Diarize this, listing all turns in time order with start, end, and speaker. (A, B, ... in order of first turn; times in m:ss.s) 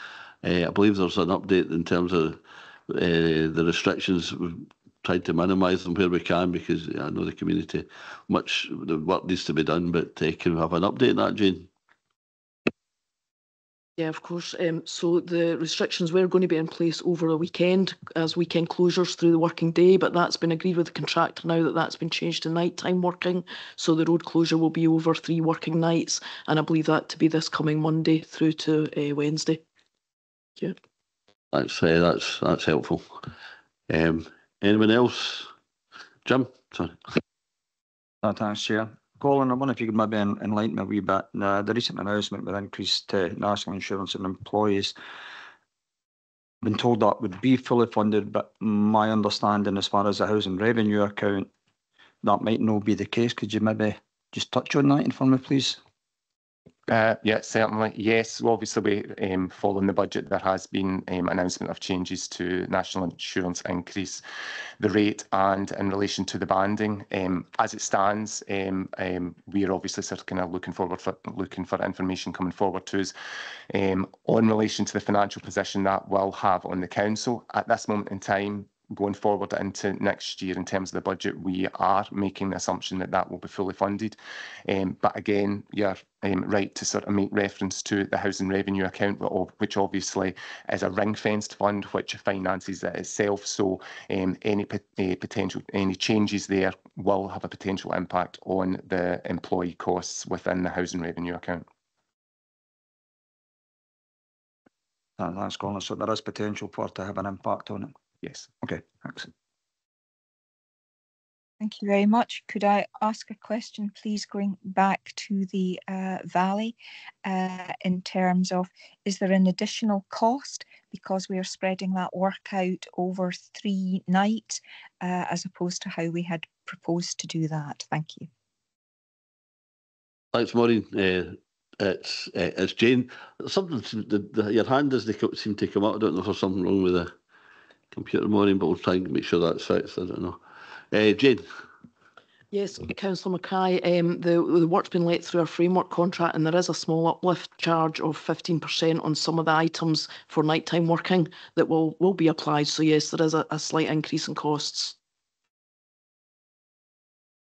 0:00.4-0:11.7 A
0:14.0-0:29.6 B
0:31.5-0:33.1 A
0:33.9-0:35.5 A
0:36.2-0:37.0 A
0:38.2-0:44.9 C
0:46.6-0:51.5 C
0:52.2-0:55.8 C
0:56.9-1:04.2 D
1:04.8-1:13.1 D
1:13.7-1:41.6 D
1:45.2-1:47.9 C
1:48.6-1:49.3 C
1:51.6-2:08.3 E
2:10.3-2:17.1 A
2:17.9-2:20.4 A
2:20.9-2:21.4 A
2:22.5-2:34.9 B